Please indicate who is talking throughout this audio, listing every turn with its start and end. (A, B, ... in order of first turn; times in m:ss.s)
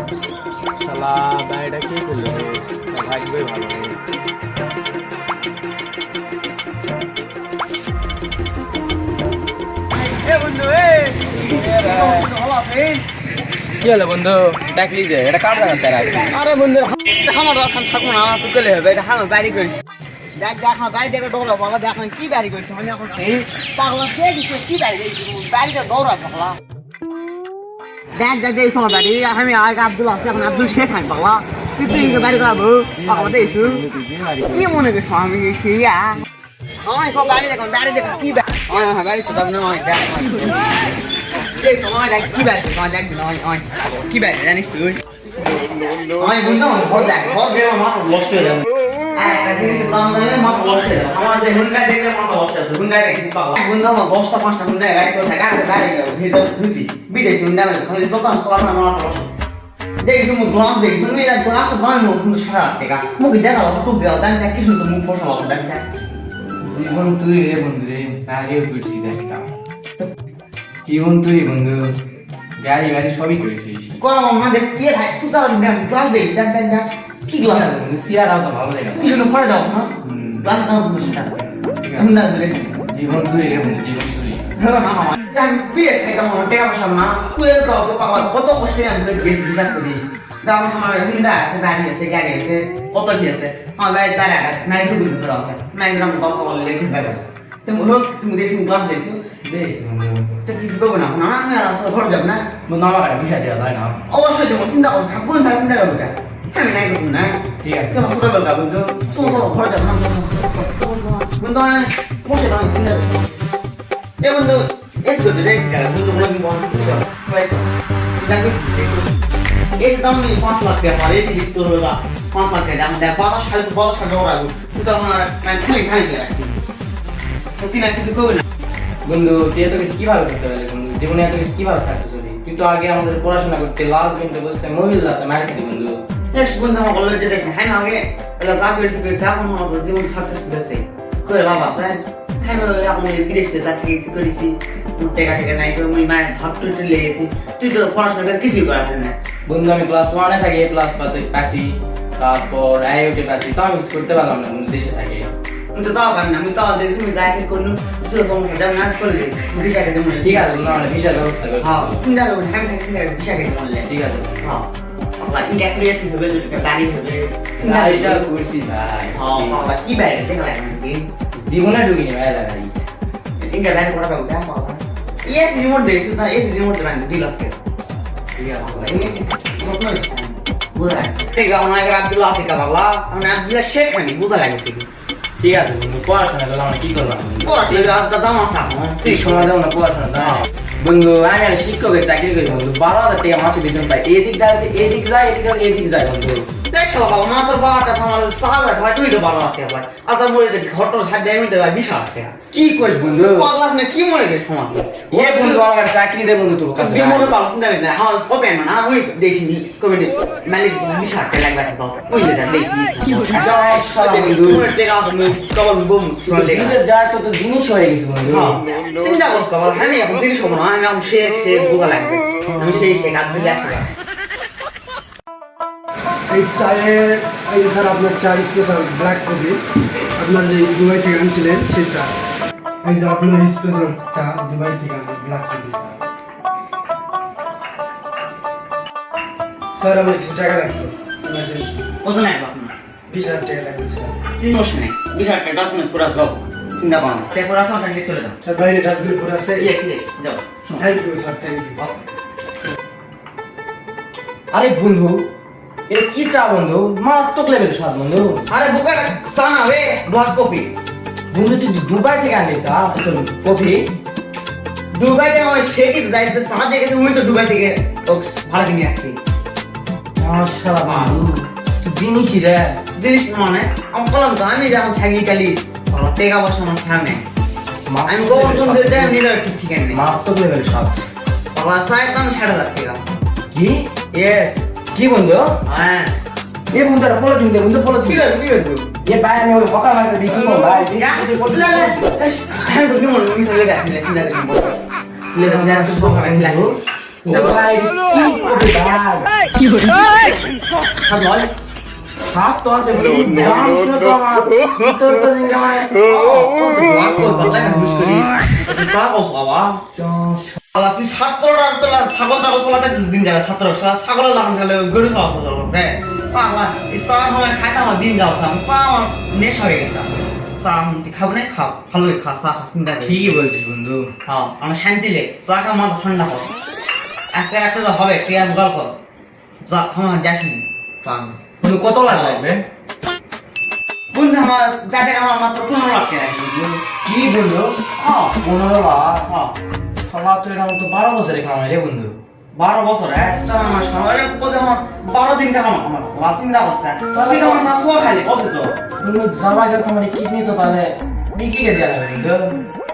0:00.8-0:04.0 A
0:09.9-0:13.0 B
0:11.3-0:12.2 A
0:13.8-0:16.4 A
0:16.2-0:19.8 B
0:20.4-0:26.6 B
0:28.2-0:33.8 B
0:31.8-0:32.2 A
0:32.9-0:34.8 A
0:34.5-0:36.2 B
0:36.8-0:45.0 B
0:46.2-0:59.3 B
1:00.0-1:06.0 B
1:06.6-1:09.5 A
1:10.8-1:12.0 A
1:12.6-1:14.0 A
1:14.0-1:17.7 B
1:17.4-1:19.2 A
1:19.0-1:22.8 B
1:20.0-1:20.5 A
1:21.8-1:22.1 A
1:22.9-1:24.4 A
1:24.6-1:39.2 B
1:39.4-1:40.4 A
1:40.4-1:42.5 B
1:42.7-1:44.0 A
1:44.1-1:53.4 B
1:47.6-1:48.1 A
1:49.1-1:49.5 A
1:54.2-1:59.1 B
1:59.8-2:06.5 B
2:07.6-2:08.4 B
2:09.0-2:16.0 A
2:16.3-2:29.2 B
2:29.5-2:35.3 A
2:35.7-2:41.0 B
2:40.2-2:42.0 A
2:41.6-2:43.9 B
2:43.8-2:44.6 A
2:44.4-2:48.2 B
2:47.6-2:49.6 A
2:49.2-2:51.1 B
2:51.4-2:52.8 A
2:53.4-2:57.6 B
2:58.4-2:59.2 A
2:58.6-3:04.9 B
3:05.4-3:08.0 A
3:07.4-3:09.5 B
3:09.0-3:16.5 A
3:10.2-3:10.4 B
3:16.7-3:22.3 B
3:22.5-3:23.5 A
3:23.1-3:25.6 B
3:25.1-3:27.3 A
3:26.8-3:36.8 B
3:33.3-3:34.7 A
3:36.2-3:38.6 A
3:38.2-3:43.9 B
3:46.3-3:49.6 C
3:50.2-3:52.1 C
3:52.8-3:56.0 C
3:59.8-4:01.9 C
4:02.0-4:02.7 B
4:03.1-4:04.1 C
4:04.4-4:08.4 B
4:08.4-4:09.7 C
4:09.6-4:10.9 B
4:10.8-4:11.8 C
4:14.5-4:15.2 A
4:15.9-4:18.4 A
4:18.5-4:20.7 B
4:21.3-4:23.8 A
4:24.9-4:29.2 B
4:30.2-4:32.8 A
4:30.8-4:31.2 B
4:33.0-4:37.2 B
4:37.9-4:39.2 A
4:38.0-4:40.0 B
4:39.9-4:41.1 A
4:41.5-4:43.0 B
4:43.5-4:43.9 A
4:44.1-4:44.6 B
4:44.9-4:45.6 A
4:45.6-4:46.1 B
4:46.7-4:48.2 A
4:48.0-4:48.9 B
4:49.0-4:52.1 A
4:50.8-4:54.8 B
4:55.3-4:56.7 B
4:55.4-4:59.3 A
4:57.3-4:57.6 B
5:01.0-5:01.5 B
5:02.3-5:05.9 A
5:06.0-5:09.8 B
5:10.0-5:10.6 A
5:10.7-5:23.4 B
5:23.0-5:24.1 A
5:24.2-5:26.5 B
5:27.3-5:28.9 B
5:29.6-5:31.4 B
5:31.6-5:32.6 A
5:32.0-5:32.4 B
5:34.1-5:36.8 B
5:37.0-5:37.8 A
5:38.0-5:38.4 B
5:38.4-5:39.3 A
5:39.3-5:39.5 B
5:40.1-5:42.2 A
5:42.5-5:48.7 B
5:47.1-5:47.7 A
5:49.0-5:52.5 A